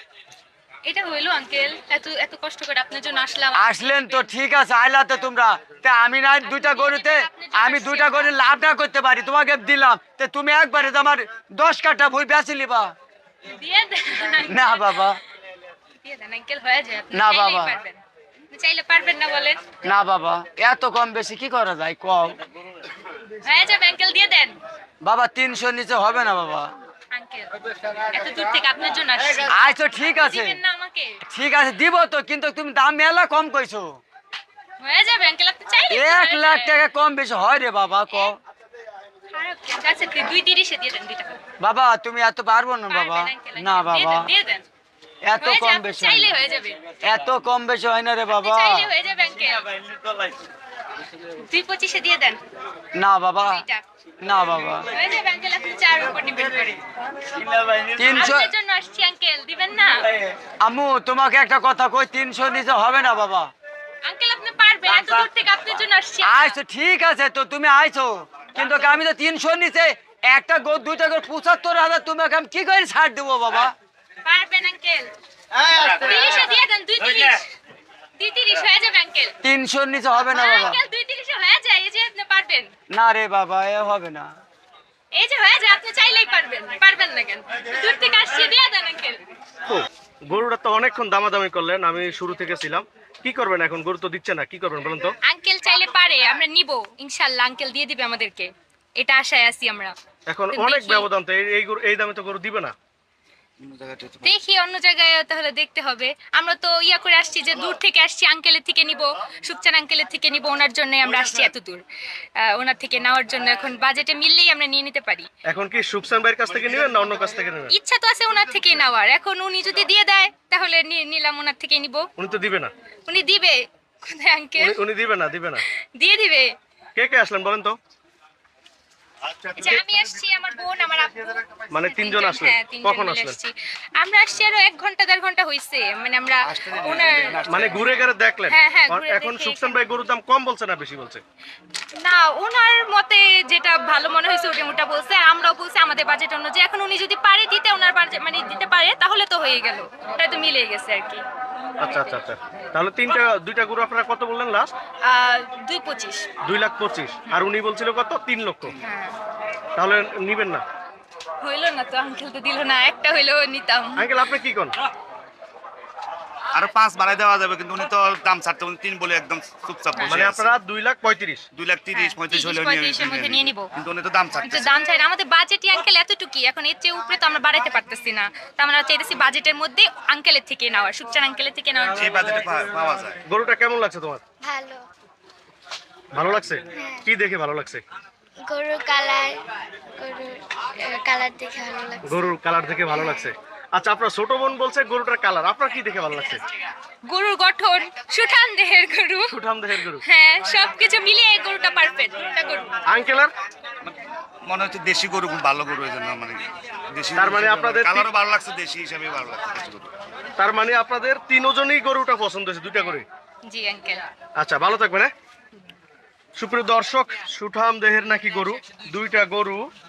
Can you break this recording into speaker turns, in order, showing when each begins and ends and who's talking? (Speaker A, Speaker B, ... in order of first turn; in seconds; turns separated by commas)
Speaker A: 0.8-4.3, Speaker B: 3.5-12.9, Speaker A: 6.4-8.3, Speaker A: 13.5-15.1, Speaker B: 14.5-15.2, Speaker A: 16.0-19.6, Speaker B: 17.1-17.8, Speaker B: 19.8-22.4, Speaker A: 23.4-24.6, Speaker B: 25.0-26.7, Speaker A: 27.1-31.2, Speaker B: 29.5-30.6, Speaker B: 31.2-34.0, Speaker A: 34.8-36.8, Speaker B: 35.9-38.4, Speaker A: 39.3-41.4, Speaker B: 41.6-44.3, Speaker A: 42.9-44.6, Speaker B: 45.3-46.4, Speaker A: 45.4-46.8, Speaker B: 47.0-48.9, Speaker A: 48.3-49.7, Speaker B: 49.7-50.4, Speaker A: 51.2-52.4, Speaker B: 52.9-53.6, Speaker A: 53.4-53.8, Speaker B: 54.2-54.9, Speaker A: 54.9-56.9, Speaker B: 57.3-58.5, Speaker A: 58.0-60.0, Speaker B: 60.4-63.5, Speaker A: 64.0-66.6, Speaker B: 66.2-73.7, Speaker A: 74.2-75.1, Speaker A: 75.8-77.4, Speaker A: 78.2-79.3, Speaker B: 79.4-80.8, Speaker A: 80.1-82.7, Speaker B: 82.9-84.3, Speaker A: 85.1-89.2, Speaker C: 89.7-95.1, Speaker A: 95.2-99.9, Speaker C: 100.3-102.7, Speaker A: 100.5-101.1, Speaker D: 103.6-104.3, Speaker A: 104.2-111.8, Speaker A: 112.4-115.3, Speaker C: 115.5-117.7, Speaker A: 117.7-122.0, Speaker C: 122.2-122.7, Speaker A: 123.1-124.8, Speaker C: 124.6-125.6, Speaker A: 125.9-126.5, Speaker C: 127.0-127.8, Speaker A: 129.4-139.8, Speaker C: 131.7-133.4, Speaker D: 136.4-138.1, Speaker C: 137.5-141.2, Speaker A: 142.0-151.2, Speaker C: 151.8-154.7, Speaker A: 155.0-156.3, Speaker C: 156.4-158.7, Speaker A: 158.8-159.2, Speaker C: 159.8-160.6, Speaker A: 161.4-164.1, Speaker C: 164.0-164.7, Speaker D: 166.5-170.6, Speaker A: 169.9-170.2, Speaker C: 170.1-171.4, Speaker D: 171.5-174.8, Speaker A: 171.9-173.7, Speaker A: 174.4-182.2, Speaker D: 181.9-183.2, Speaker C: 183.3-184.2, Speaker E: 184.4-184.8, Speaker C: 186.1-187.8, Speaker E: 186.8-187.1, Speaker E: 188.5-189.4, Speaker E: 190.0-192.2, Speaker C: 192.1-196.4, Speaker A: 197.1-199.3, Speaker C: 199.3-200.0, Speaker A: 200.0-202.7, Speaker C: 202.9-203.3, Speaker D: 203.8-209.9, Speaker C: 207.1-208.1, Speaker C: 210.4-213.1, Speaker A: 213.4-214.0, Speaker C: 214.4-215.1, Speaker C: 216.4-219.7